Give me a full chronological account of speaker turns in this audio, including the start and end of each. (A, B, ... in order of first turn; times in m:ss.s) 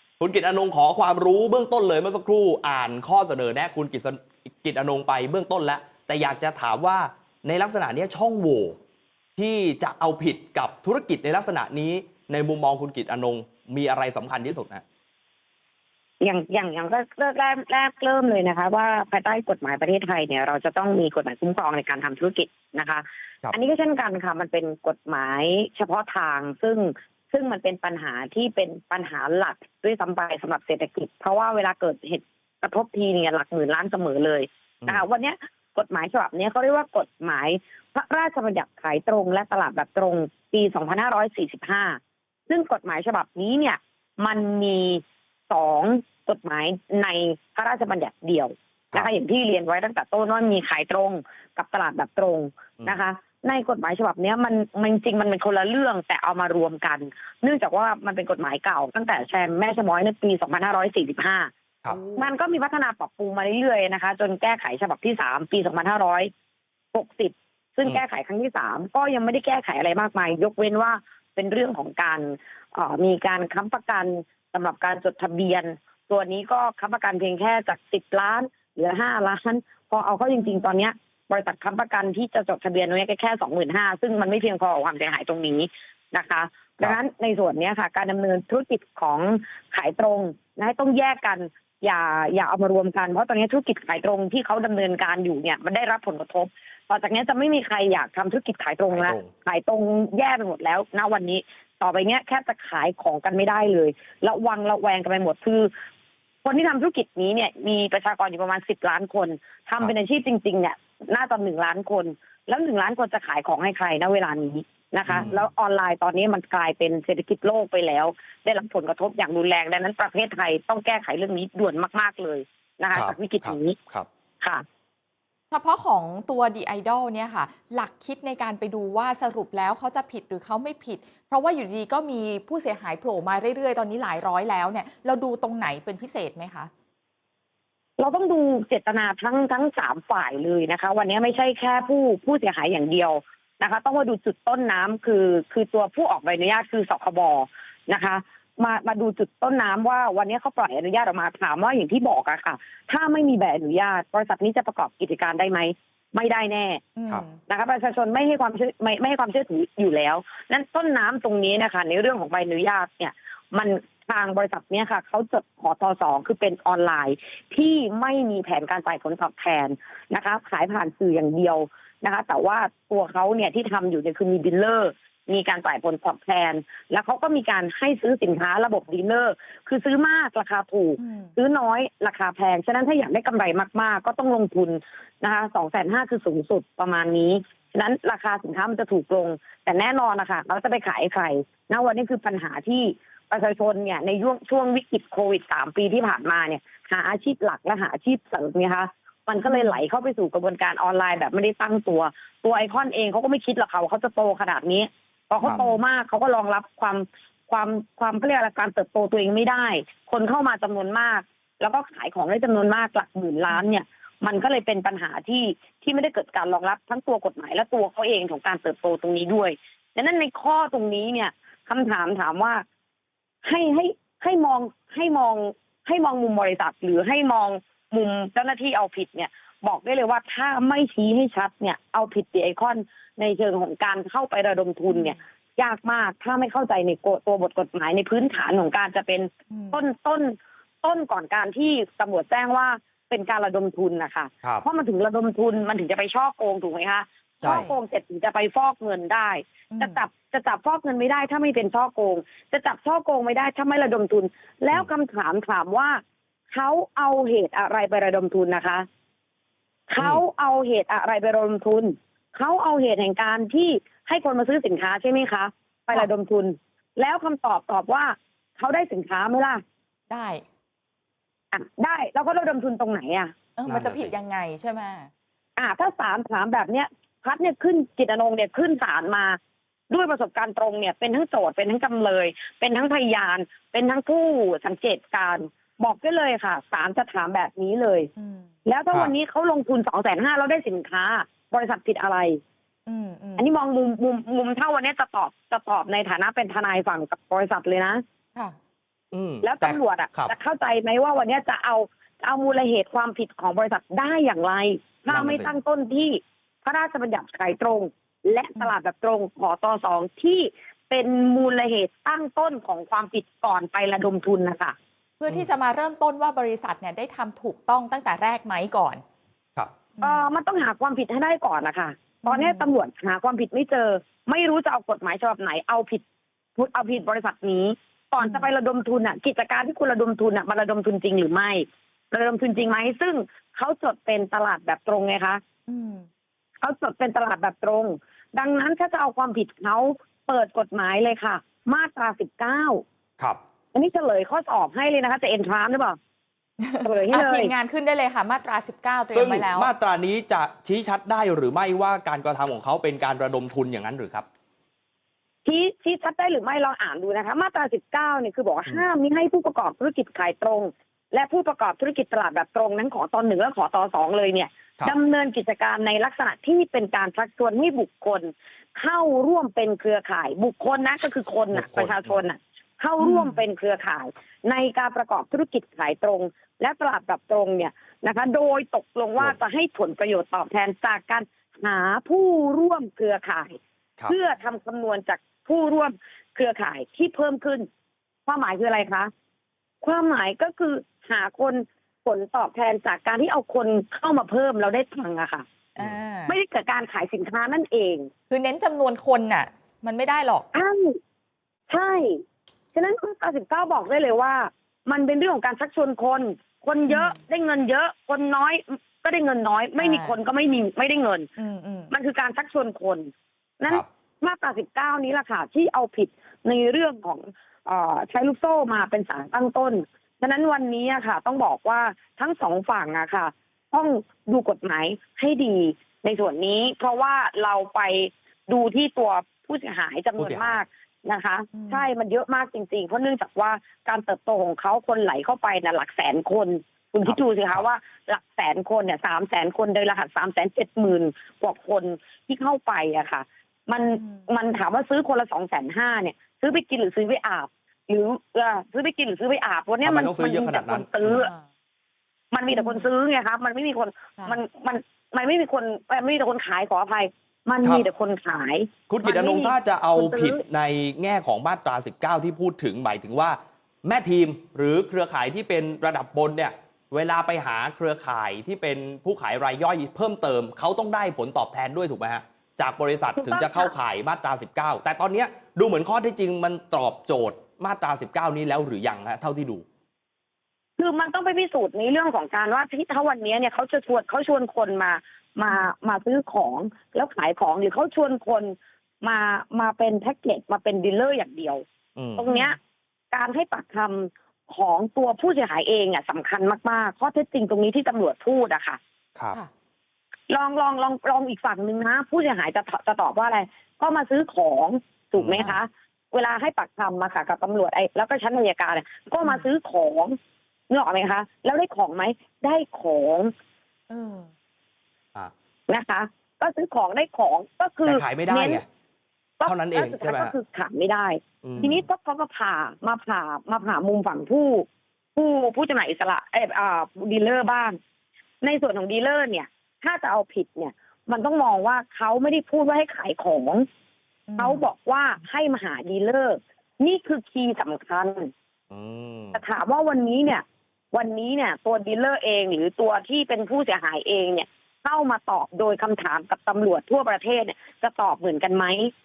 0:00.2-0:08.8 A
0:09.4-0:14.8 A
0:16.2-1:01.5 B
1:02.1-1:06.3 B
1:06.9-1:45.7 B
1:20.3-1:20.7 C
1:38.9-1:39.3 A
1:46.4-2:03.8 B
1:55.1-1:55.4 A
2:02.9-2:04.1 A
2:05.5-2:16.7 C
2:18.0-2:36.8 B
2:36.9-2:37.4 C
2:37.5-3:42.6 B
3:01.0-3:01.3 C
3:19.4-3:19.8 C
3:25.5-3:25.8 C
3:43.4-4:16.0 B
3:54.9-3:55.2 C
3:59.5-3:59.8 C
4:07.4-4:07.8 C
4:09.7-4:10.0 C
4:16.5-4:18.9 B
4:19.9-4:29.6 B
4:30.1-4:30.4 C
4:31.5-4:33.3 B
4:33.6-4:35.1 C
4:33.7-4:34.2 A
4:35.6-4:39.4 B
4:39.9-4:48.1 B
4:48.2-4:48.5 C
4:48.7-4:52.4 B
4:52.9-4:53.5 C
4:53.4-4:58.0 B
4:59.1-5:00.3 A
4:59.4-5:14.8 B
5:05.1-5:05.5 A
5:15.2-5:19.0 C
5:20.0-5:20.2 C
5:20.0-5:26.0 B
5:22.2-5:22.7 C
5:26.6-5:35.4 B
5:28.2-5:28.5 C
5:35.7-5:36.1 C
5:36.6-5:42.8 B
5:43.7-5:46.0 B
5:46.6-5:49.7 C
5:46.8-5:47.5 B
5:49.1-5:54.3 A
5:55.4-6:27.7 B
6:11.5-6:12.2 A
6:13.0-6:13.4 C
6:28.3-6:29.1 B
6:29.8-6:35.4 B
6:35.8-6:36.4 C
6:36.3-6:38.1 B
6:38.3-6:40.5 C
6:40.5-6:41.0 B
6:41.7-6:42.2 B
6:42.7-6:51.3 B
6:46.9-6:47.2 C
6:49.8-6:50.2 C
6:51.4-6:51.9 C
6:51.9-7:31.3 B
7:10.2-7:10.6 A
7:11.6-7:11.9 C
7:17.0-7:17.7 A
7:24.0-7:24.3 C
7:29.8-7:31.2 A
7:31.1-7:31.4 C
7:32.3-7:40.4 B
7:32.5-7:32.9 C
7:38.9-7:59.6 A
7:53.2-7:53.8 B
8:00.8-8:11.6 B
8:12.0-8:12.2 A
8:12.2-8:12.6 B
8:12.2-8:12.6 C
8:13.1-8:18.8 B
8:20.3-8:30.2 B
8:25.2-8:25.5 A
8:30.7-8:33.3 B
8:33.9-8:34.3 C
8:35.7-8:38.6 B
8:37.8-8:38.6 A
8:39.4-8:47.8 B
8:39.4-8:40.4 A
8:41.4-8:41.8 A
8:48.4-8:53.6 B
8:54.3-8:54.6 C
8:54.4-8:58.3 B
8:58.7-8:59.4 A
8:59.3-9:08.9 B